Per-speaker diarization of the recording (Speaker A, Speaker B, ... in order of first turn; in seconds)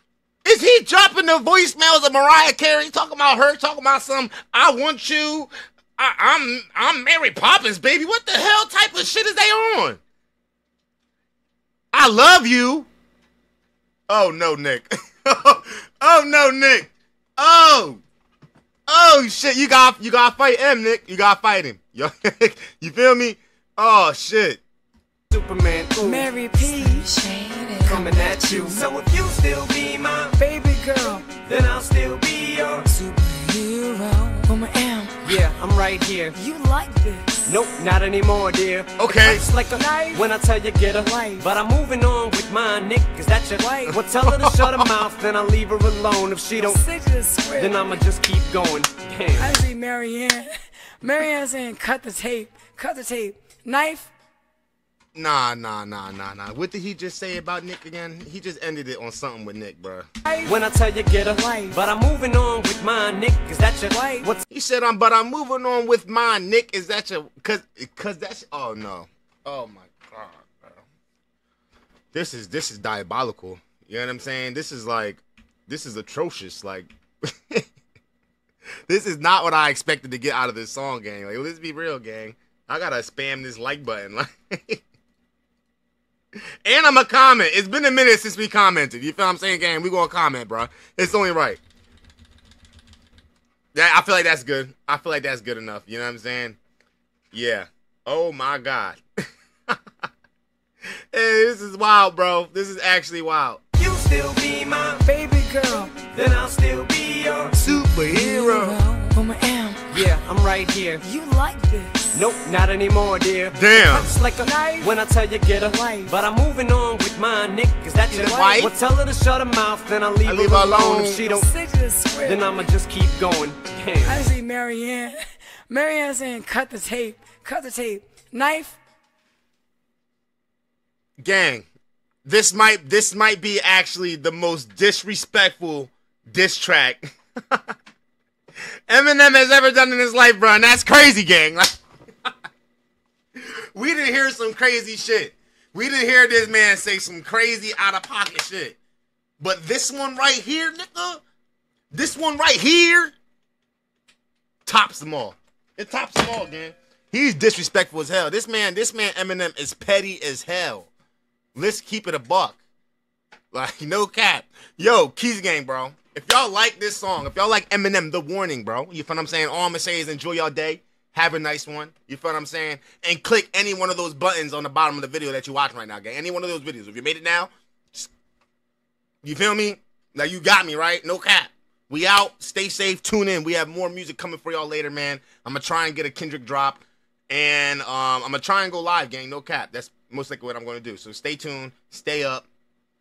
Speaker A: 0.4-10.0, 11.9-12.9, 14.1-18.0, 18.9-24.6, 39.0-39.4, 44.3-44.9, 55.1-60.1, 64.5-70.8, 72.1-77.7, 78.9-84.8, 86.6-91.6, 93.7-96.6, 97.3-99.0, 101.1-103.6, 107.6-108.8, 113.5-114.1, 118.1-118.7, 120.2-121.2, 131.2-131.6, 132.2-137.6, 138.9-141.7, 143.4-148.8, 149.4-151.2, 151.9-153.1, 154.7-160.9, 161.5-162.6, 163.5-178.1, 179.2-192.5
Speaker B: 25.3-27.1, 27.8-30.4, 31.0-32.9, 35.2-36.4, 37.5-46.8, 47.5-49.5, 60.4-64.4, 103.8-105.0, 105.7-107.6, 109.9-111.0, 112.1-121.5, 122.2-124.3
Speaker C: 26.0-28.8, 30.4-31.2, 32.9-35.4, 36.3-37.7, 39.7-40.3, 41.0-41.5, 43.6-44.0, 46.6-48.0, 49.4-54.1, 60.2-60.6, 61.4-61.8, 63.9-64.3, 105.0-105.9, 107.6-110.0, 111.0-112.4, 114.4-114.9, 115.8-116.1, 121.2-122.5, 124.0-128.8